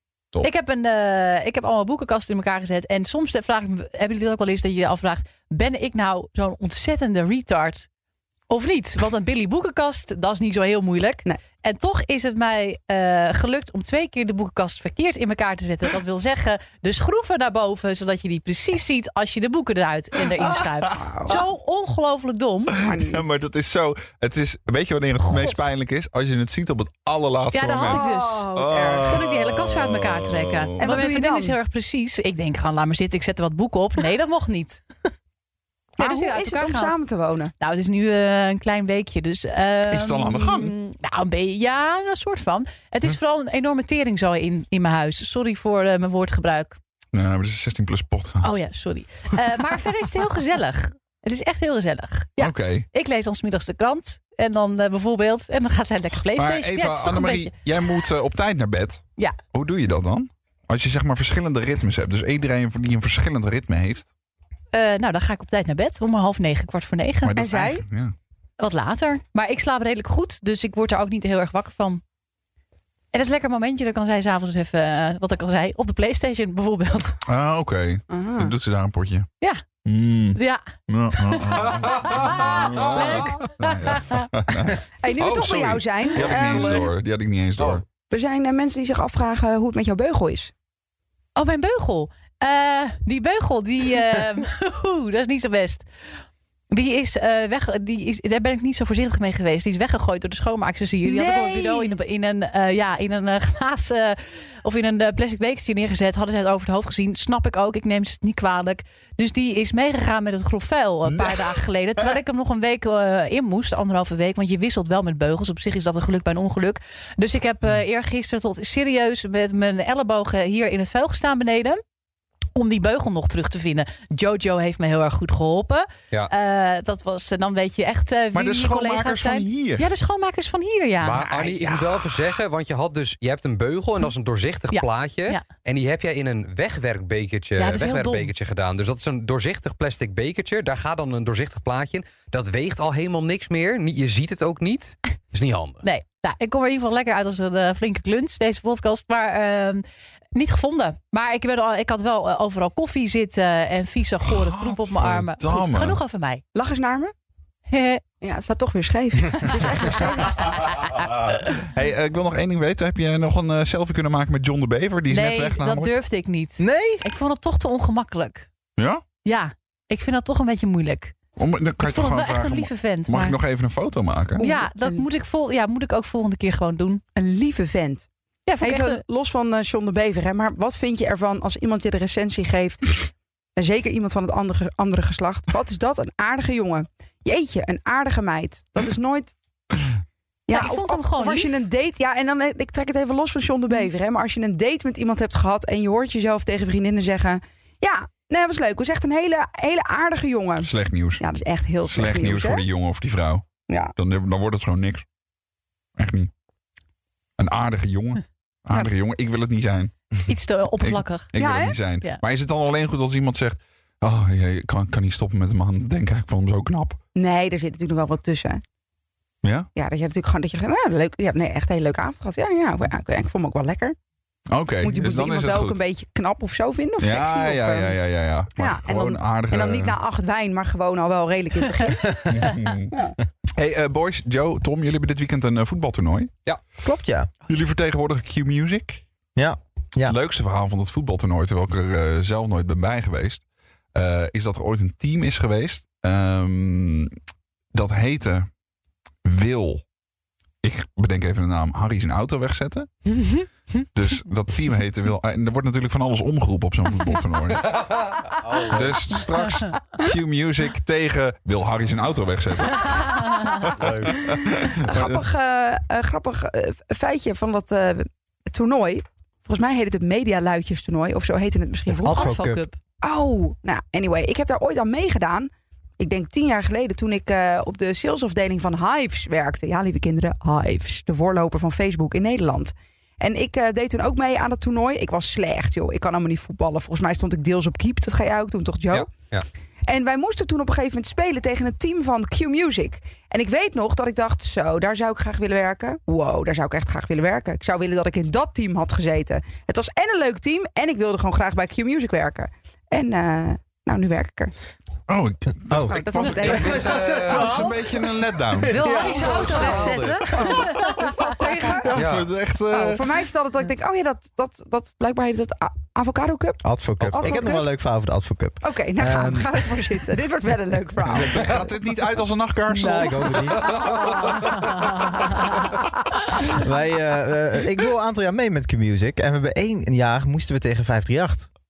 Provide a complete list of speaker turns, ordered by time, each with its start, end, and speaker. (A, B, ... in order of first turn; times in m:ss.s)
0:00.4-0:07.9 A
0:08.5-0:22.8 A
0:20.9-0:21.4 B
0:22.8-0:23.2 B
0:23.0-0:30.9 C
0:25.2-0:25.7 A
0:27.5-0:34.8 A
0:27.8-0:28.5 B
0:30.8-0:31.6 B
0:36.0-0:37.5 B
0:36.0-0:37.0 A
0:37.6-0:46.8 A
0:39.9-0:40.8 C
0:47.1-0:48.5 C
0:48.4-0:57.5 A
0:52.4-0:52.9 C
0:56.3-1:04.1 C
1:04.7-1:07.4 A
1:07.2-1:08.1 C
1:07.4-1:07.8 B
1:08.6-1:12.0 A
1:13.1-1:17.2 A
1:17.3-1:19.3 C
1:18.1-1:18.5 B
1:19.8-1:27.8 C
1:20.4-1:20.6 A
1:21.2-1:24.3 A
1:25.0-1:26.9 B
1:28.1-1:30.5 B
1:31.4-1:35.8 A
1:36.7-2:01.8 A
1:41.0-1:42.0 B
1:51.1-1:51.6 C
2:02.6-2:11.3 A
2:08.3-2:09.9 C
2:11.0-2:25.8 D
2:11.3-2:12.1 C
2:14.7-2:15.5 A
2:17.6-2:18.3 A
2:25.8-2:36.4 A
2:34.2-2:36.0 C
2:36.5-2:37.1 B
2:37.7-2:38.0 A
2:38.2-2:40.5 B
2:39.4-2:41.6 A
2:41.6-2:45.9 C
2:45.1-2:48.5 A
2:46.6-2:47.0 E
2:48.8-2:49.0 C
2:49.2-2:51.1 A
2:51.4-2:54.4 C
2:51.8-2:53.4 A
2:54.4-2:57.0 A
2:54.4-2:55.0 B
2:57.2-2:58.1 B
2:58.5-2:59.0 A
2:58.6-3:09.3 B
3:10.5-3:22.6 B
3:10.5-3:11.6 A
3:20.6-3:21.2 C
3:21.8-3:23.4 C
3:23.7-3:23.9 B
3:24.0-3:25.0 C
3:26.0-3:26.3 C
3:27.4-3:30.0 C
3:30.3-3:31.4 A
3:30.8-3:37.0 C
3:31.4-3:31.8 B
3:37.2-3:38.6 B
3:39.4-3:39.7 C
3:39.8-3:44.0 B
3:44.5-3:45.8 C
3:44.8-3:48.0 B
3:47.0-3:50.0 C
3:48.6-3:53.2 B
3:52.3-3:52.9 C
3:53.6-3:56.3 C
3:56.8-3:57.3 E
3:57.5-3:59.0 C
3:59.4-4:00.2 E
4:00.0-4:03.4 C
4:03.9-4:07.2 C
4:07.7-4:08.5 C
4:09.2-4:09.8 C
4:10.6-4:12.9 C
4:13.9-4:17.8 C
4:17.8-4:19.0 D
4:18.7-4:25.2 C
4:23.8-4:24.1 D
4:24.8-4:32.4 B
4:32.0-4:32.7 E
4:32.0-4:32.8 A
4:33.0-4:49.1 B
4:48.9-4:49.5 D
4:49.9-5:04.5 B
5:05.1-5:08.8 C
5:05.7-5:07.8 E
5:05.9-5:07.6 B
5:06.4-5:07.6 D
5:08.6-5:09.8 E
5:08.7-5:11.4 A
5:09.0-5:10.2 D
5:09.0-5:12.1 B
5:11.8-5:13.0 C
5:12.0-5:12.3 D
5:12.7-5:17.7 B
5:16.6-5:19.5 E
5:18.6-5:21.7 B
5:21.1-5:23.3 C
5:22.7-5:23.9 E
5:23.4-5:24.7 B
5:24.6-5:25.3 A
5:26.5-5:31.5 E